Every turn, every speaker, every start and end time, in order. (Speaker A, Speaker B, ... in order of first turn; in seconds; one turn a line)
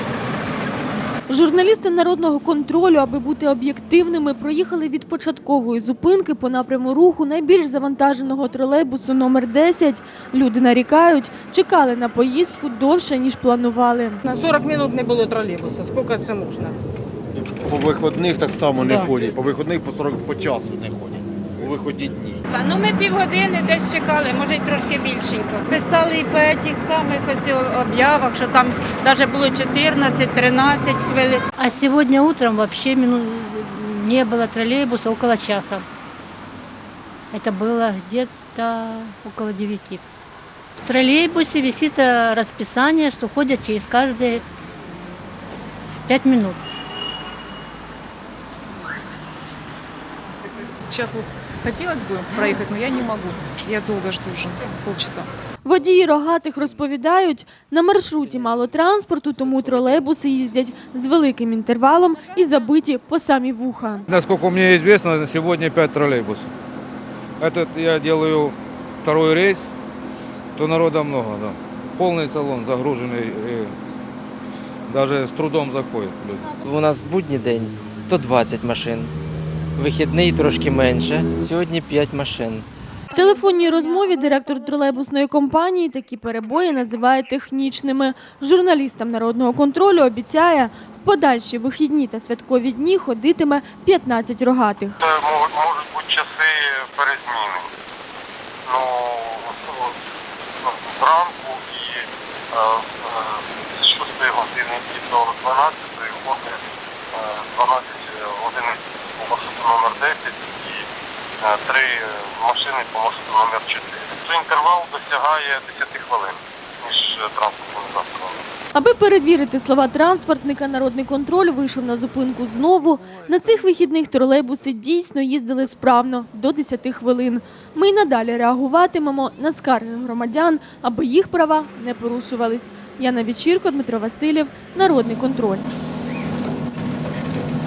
Speaker A: 1.3-14.2
Speaker B: 14.2-16.8
Speaker C: 17.6-22.4
Speaker D: 22.5-31.4
Speaker E: 31.6-35.8
Speaker E: 37.3-40.0
Speaker E: 40.9-44.4
Speaker E: 46.0-46.6
Speaker F: 50.9-55.3
Speaker A: 55.6-64.0
Speaker G: 64.1-66.5
Speaker G: 67.4-69.7
Speaker G: 70.5-73.7
Speaker G: 74.9-76.6
Speaker H: 76.6-79.1
Speaker H: 79.8-82.7
Speaker A: 83.1-95.0
Speaker I: 95.0-97.7
Speaker I: 98.7-100.0
Speaker I: 100.6-110.8
Speaker I: 111.4-118.4
Speaker A: 118.7-135.6